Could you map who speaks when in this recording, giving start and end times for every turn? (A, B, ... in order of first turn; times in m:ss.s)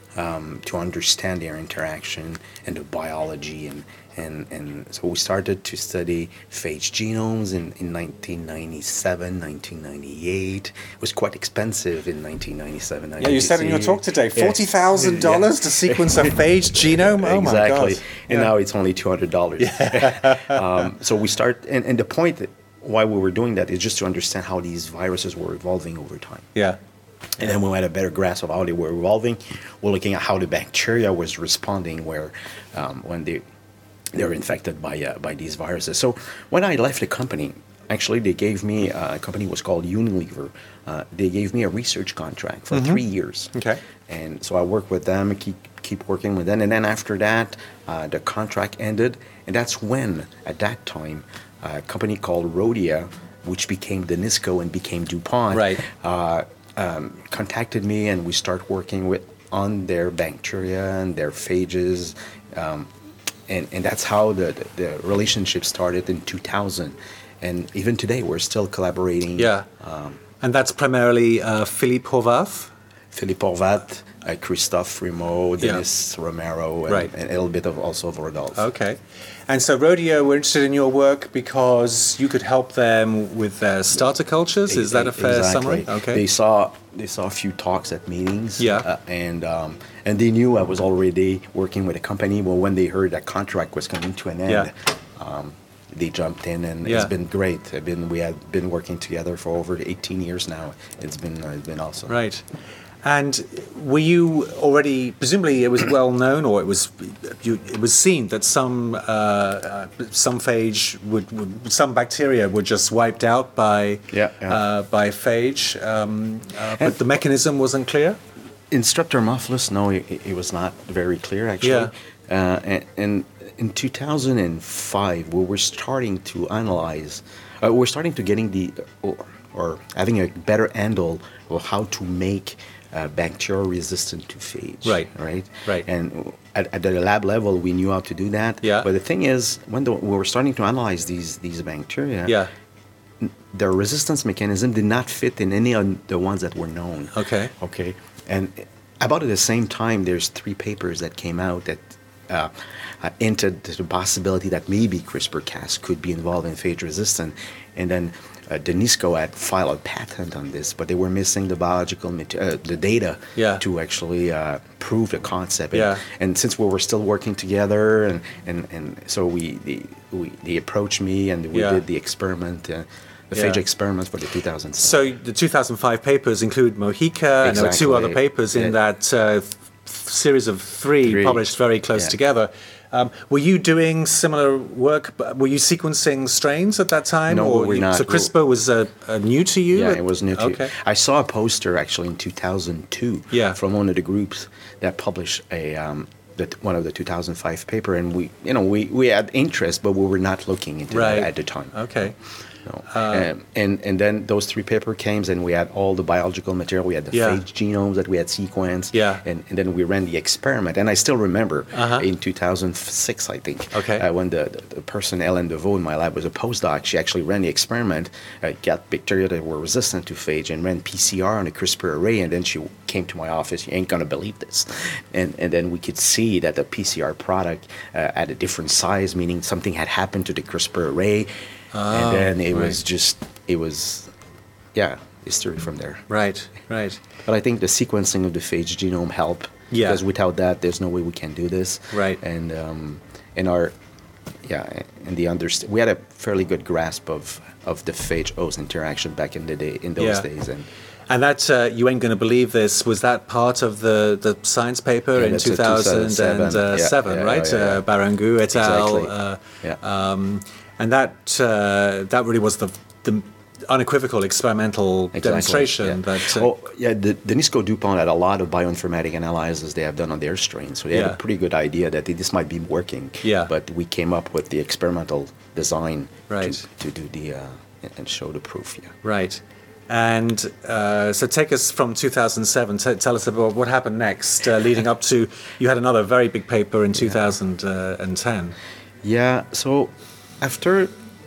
0:00.2-0:26.5 A
0:13.2-0:18.5 B
0:19.6-0:20.8 B
0:27.4-0:33.4 A
0:34.1-0:43.5 A
0:42.7-0:43.0 B
0:43.5-0:43.8 B
0:44.1-1:02.9 A
0:55.5-0:55.8 B
1:03.5-1:10.2 A
1:09.4-1:09.7 B
1:10.4-1:12.7 B
1:13.1-1:18.6 A
1:18.6-1:19.0 B
1:19.5-1:26.2 B
1:24.7-1:42.2 A
1:28.6-1:28.9 B
1:36.8-1:37.1 B
1:42.1-1:42.4 B
1:43.0-1:58.2 B
1:54.1-1:54.6 A
1:58.7-2:22.4 A
2:01.6-2:01.9 B
2:14.8-2:15.1 B
2:18.6-2:18.9 B
2:23.2-2:55.0 A
2:27.1-2:27.5 B
2:43.4-2:43.6 B
2:45.7-2:46.0 B
2:51.5-2:51.8 B
2:53.3-2:53.6 B
2:54.8-3:10.7 B
2:57.4-2:58.8 A
3:01.0-3:02.2 A
3:07.2-3:08.3 A
3:09.7-3:22.1 A
3:13.3-3:13.6 B
3:20.9-3:22.1 B
3:22.6-3:51.3 A
3:22.9-3:23.3 B
3:27.1-3:27.4 B
3:28.9-3:29.2 B
3:31.7-3:32.1 B
3:33.7-3:34.0 B
3:51.7-3:52.8 B
3:51.9-3:54.1 A
3:54.7-3:56.0 A
3:56.1-3:57.0 B
3:57.2-4:03.7 A
3:59.7-4:00.0 B
4:01.9-4:02.2 B
4:04.4-4:10.7 A
4:10.0-4:10.3 B
4:11.1-4:26.5 B
4:15.1-4:17.8 A
4:18.5-4:19.8 A
4:25.1-4:38.9 A
4:30.9-4:31.2 B
4:33.2-4:33.5 B
4:36.3-4:36.6 B
4:39.0-4:48.5 B
4:49.0-4:50.9 A